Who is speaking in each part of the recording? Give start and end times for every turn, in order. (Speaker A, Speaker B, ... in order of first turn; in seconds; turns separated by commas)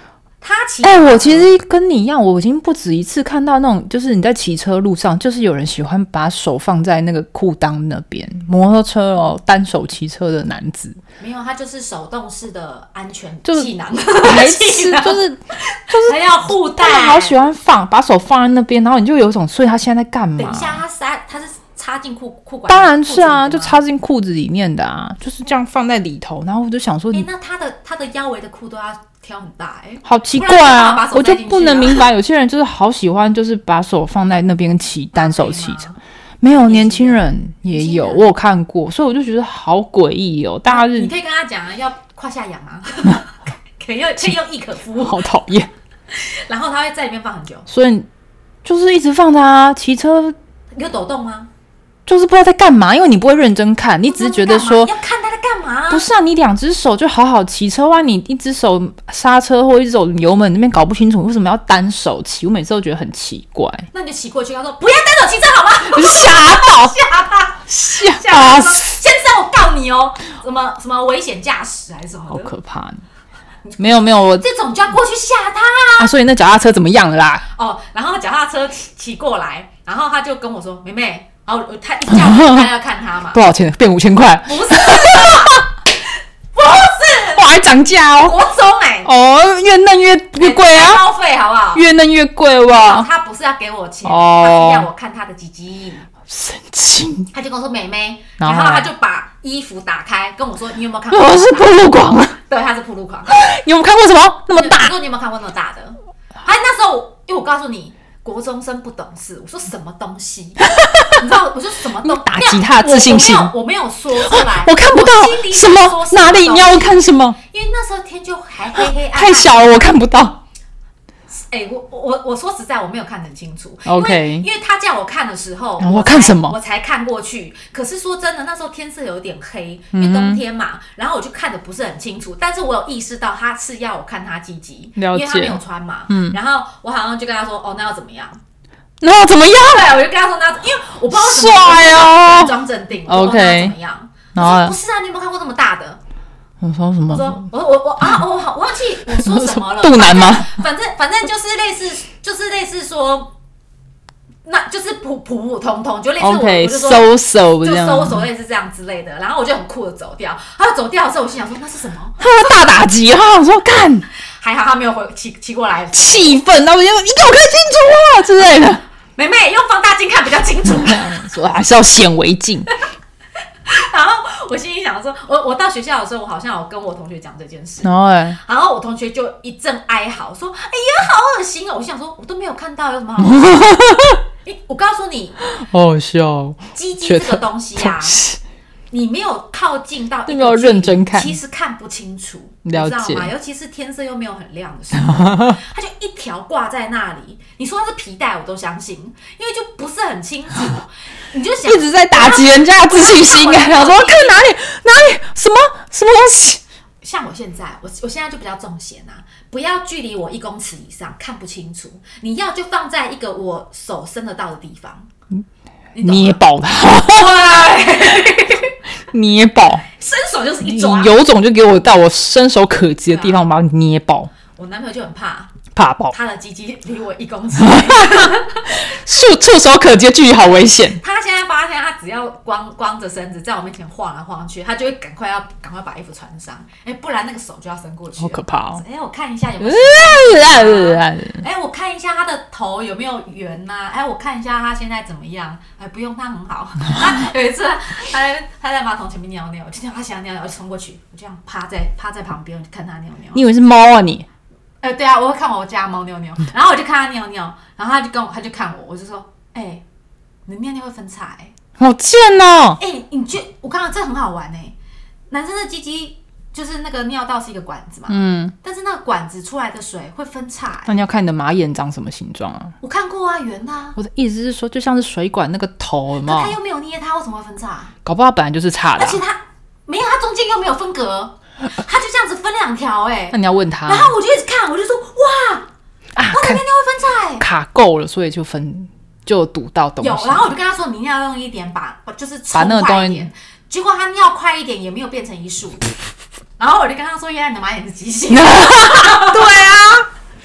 Speaker A: 0.4-1.5, Speaker B: 0.8-11.0, Speaker A: 11.2-17.4, Speaker B: 13.4-15.4, Speaker B: 15.9-20.8, Speaker A: 20.4-23.8, Speaker B: 22.7-27.3, Speaker A: 27.1-32.0, Speaker B: 30.0-35.8, Speaker A: 35.1-38.2, Speaker B: 36.4-41.1, Speaker A: 40.6-45.2, Speaker B: 45.0-45.7, Speaker A: 46.1-47.7, Speaker B: 47.7-48.1, Speaker B: 48.6-50.4, Speaker A: 50.7-51.5, Speaker B: 52.1-54.9, Speaker A: 54.1-56.0, Speaker B: 55.9-63.9, Speaker A: 63.9-72.5, Speaker B: 65.8-67.0, Speaker B: 67.7-68.9, Speaker B: 72.3-73.0, Speaker A: 73.6-76.1, Speaker B: 73.8-74.5, Speaker B: 76.0-77.5, Speaker A: 77.5-83.4, Speaker B: 82.1-82.7, Speaker B: 83.3-85.5, Speaker A: 84.4-85.7, Speaker A: 86.5-87.5, Speaker B: 87.3-88.4, Speaker A: 88.2-89.1, Speaker B: 89.0-91.0, Speaker A: 90.3-91.8, Speaker B: 91.7-93.1, Speaker A: 92.7-96.1, Speaker B: 94.0-94.9, Speaker B: 96.3-97.3, Speaker A: 97.3-103.4, Speaker B: 98.4-98.9, Speaker B: 101.1-102.3, Speaker B: 103.3-104.9, Speaker A: 104.5-119.9, Speaker B: 110.7-111.2, Speaker B: 112.0-113.5, Speaker B: 114.2-117.4, Speaker B: 118.7-120.4, Speaker A: 121.3-138.4, Speaker B: 123.8-124.5, Speaker B: 125.8-126.6, Speaker B: 129.9-130.4, Speaker B: 135.0-136.3, Speaker B: 139.0-139.9, Speaker A: 139.7-146.0, Speaker B: 141.1-142.5, Speaker B: 143.1-143.8, Speaker B: 144.3-144.7, Speaker B: 146.6-147.4, Speaker A: 147.1-153.3, Speaker B: 149.1-150.6, Speaker A: 154.4-162.2, Speaker B: 156.2-158.2, Speaker B: 162.2-164.1, Speaker A: 164.4-166.4, Speaker B: 165.9-168.8, Speaker A: 169.2-171.2, Speaker B: 170.6-172.7, Speaker A: 173.7-183.8, Speaker B: 177.8-178.4, Speaker B: 183.2-184.2, Speaker A: 184.4-185.3, Speaker B: 185.5-188.4, Speaker A: 186.7-188.2, Speaker A: 188.9-204.5, Speaker B: 190.3-191.3, Speaker B: 192.6-193.3, Speaker B: 194.9-195.6, Speaker B: 201.7-206.6, Speaker A: 207.0-215.1, Speaker A: 215.9-216.4, Speaker B: 216.0-217.4, Speaker A: 217.0-218.7, Speaker B: 219.1-219.8, Speaker A: 219.9-221.1, Speaker B: 220.6-224.3, Speaker A: 223.1-223.4, Speaker A: 224.5-225.6, Speaker B: 225.7-226.1, Speaker A: 226.1-228.9, Speaker B: 227.6-231.0, Speaker A: 231.0-253.4, Speaker B: 238.2-238.8, Speaker B: 239.6-241.4, Speaker B: 253.3-254.2, Speaker A: 254.8-259.8, Speaker A: 260.5-261.5, Speaker B: 261.8-262.8, Speaker A: 262.8-264.7, Speaker A: 265.3-271.0, Speaker B: 268.1-268.5, Speaker B: 270.9-272.8, Speaker A: 272.8-274.0, Speaker B: 274.0-276.6, Speaker A: 276.2-277.9, Speaker B: 278.0-279.2, Speaker A: 278.9-285.7, Speaker B: 283.3-284.1, Speaker B: 286.1-286.6, Speaker A: 286.3-287.4, Speaker B: 287.4-290.5, Speaker A: 290.0-295.9, Speaker B: 292.5-293.3, Speaker A: 296.6-299.5, Speaker B: 298.3-300.1